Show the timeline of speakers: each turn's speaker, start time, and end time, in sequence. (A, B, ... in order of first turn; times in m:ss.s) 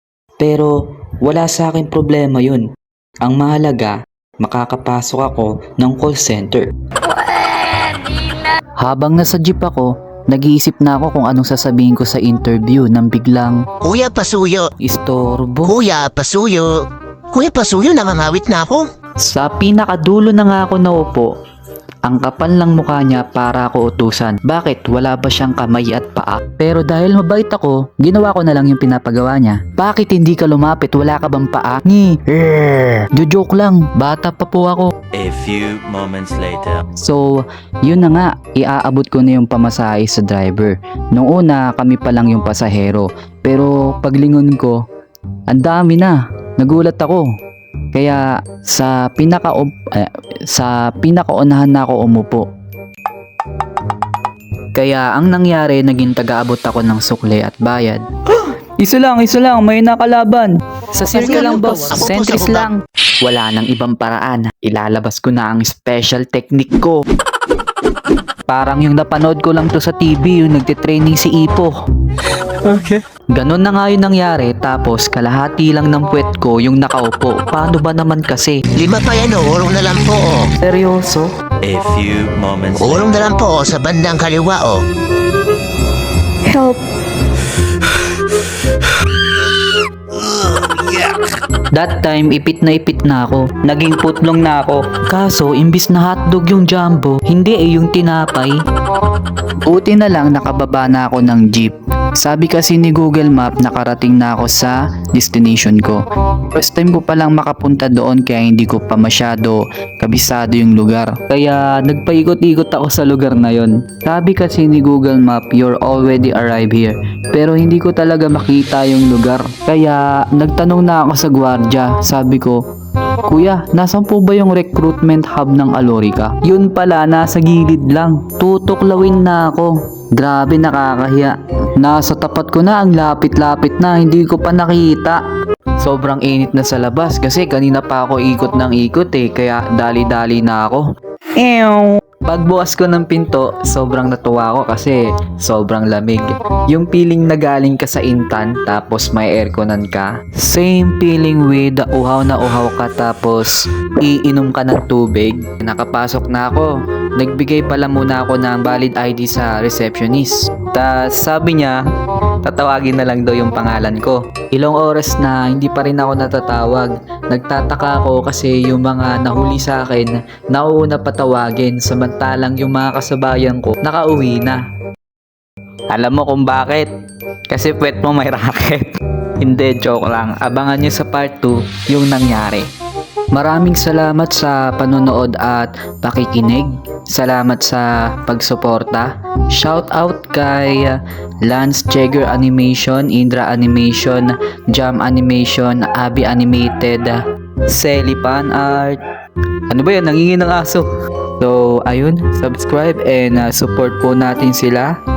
0:00.4-0:00.7 A
0:01.2-0:02.6 A
0:03.2-0:06.7 A
0:08.8-0:13.6 A
0:13.8-0:14.7 B
0:14.8-0:15.7 A
0:15.6-0:16.7 B
0:17.3-0:18.9 B
0:19.2-0:21.3 A
0:22.0-0:34.9 A
0:35.1-0:36.8 C
0:37.0-0:44.8 A
0:45.5-0:47.3 A
0:47.9-0:52.4 A
0:54.7-1:07.0 A
1:01.1-1:02.7 B
1:08.5-1:11.7 A
1:12.7-1:18.6 A
1:18.8-1:20.4 B
1:20.6-1:21.3 A
1:21.6-1:23.1 C
1:22.8-1:24.8 B
1:26.5-1:26.8 A
1:31.7-1:38.6 A
1:39.6-2:02.6 A
2:03.3-2:15.2 A
2:15.8-2:41.8 A
2:42.4-2:54.6 A
2:55.9-2:56.9 A
2:57.5-3:02.7 A
3:03.3-3:17.2 A
3:17.7-3:19.0 A
3:19.7-3:20.8 A
3:21.4-3:24.9 A